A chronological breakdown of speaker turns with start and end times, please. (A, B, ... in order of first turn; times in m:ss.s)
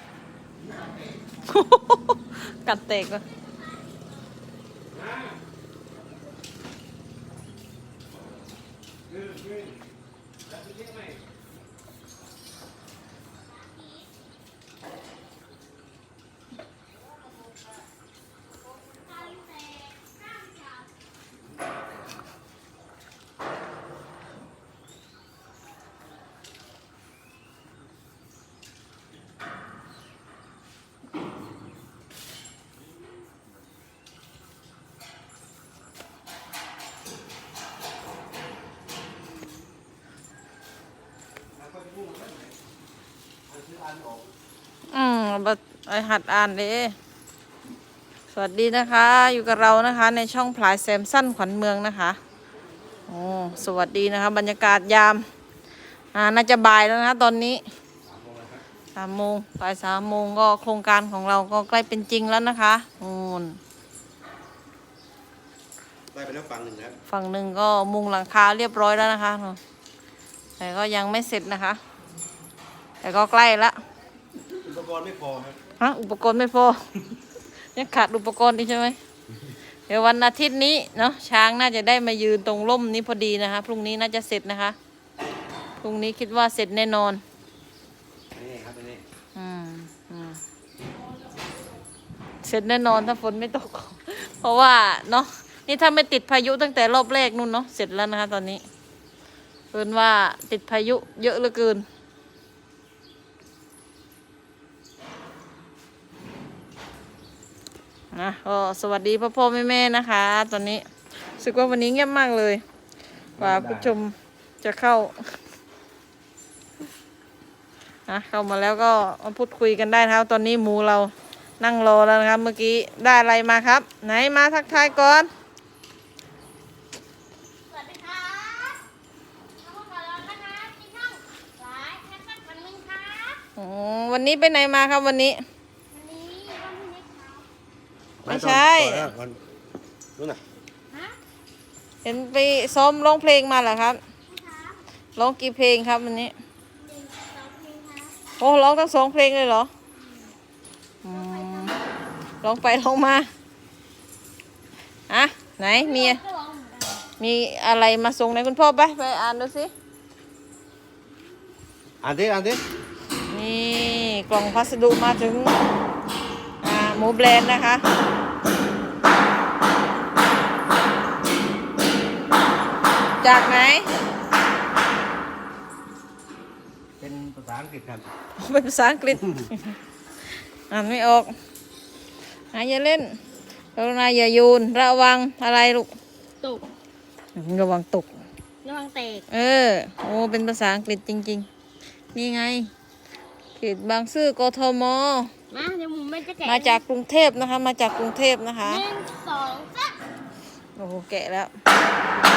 0:01.4-0:03.2 A
0:04.9-0:05.4 B
0:09.1-0:09.8 B
0:10.4-0:11.2 B
0:13.4-0:14.1 C
0:18.9-0:20.9 C
0:41.6-0:42.6 B
0:43.5-0:44.3 B
0:44.9-0:46.9 A
0:48.3-0:52.2 A
0:53.1-0:55.2 A
0:56.1-0:57.6 A
0:58.0-0:58.6 B
0:59.0-1:03.6 A
1:06.1-1:07.0 B
1:07.1-1:09.6 A
1:10.6-1:11.8 A
1:13.0-1:13.8 A
1:14.5-1:15.6 B
1:15.8-1:16.8 A
1:17.7-1:19.0 A
1:19.9-1:24.8 A
1:25.8-1:27.2 A
1:28.3-1:29.0 B
1:29.3-1:30.4 A
1:32.4-1:38.6 A
1:39.7-1:41.8 A
1:48.1-1:50.8 A
1:51.4-1:52.6 A
1:53.4-1:53.9 B
1:53.4-1:55.3 A
1:58.1-2:05.3 A
2:07.7-2:08.8 C
2:09.6-2:13.4 C
2:13.6-2:15.4 A
2:15.9-2:17.4 C
2:18.2-2:19.4 B
2:18.3-2:19.1 A
2:20.9-2:21.2 C
2:22.0-2:24.0 A
2:24.3-2:24.8 C
2:25.2-2:26.3 A
2:26.8-2:28.1 C
2:28.4-2:29.7 A
2:30.0-2:30.3 C
2:31.0-2:31.7 A
2:31.1-2:31.8 C
2:32.4-2:33.3 A
2:35.1-2:36.2 A
2:35.7-2:37.1 C
2:37.2-2:39.7 A
2:42.0-2:42.6 B
2:43.3-2:45.6 A
2:46.6-2:47.8 A
2:53.2-2:53.9 A
2:57.0-2:58.1 B
2:58.4-2:59.7 A
2:59.2-2:59.5 B
3:00.7-3:01.3 A
3:02.5-3:03.2 A
3:03.8-3:05.9 A
3:07.4-3:08.1 A
3:08.6-3:09.3 C
3:09.3-3:11.5 A
3:12.1-3:12.7 A
3:13.6-3:15.3 A
3:15.5-3:16.8 C
3:16.4-3:18.8 A
3:18.6-3:20.0 C
3:20.8-3:21.5 A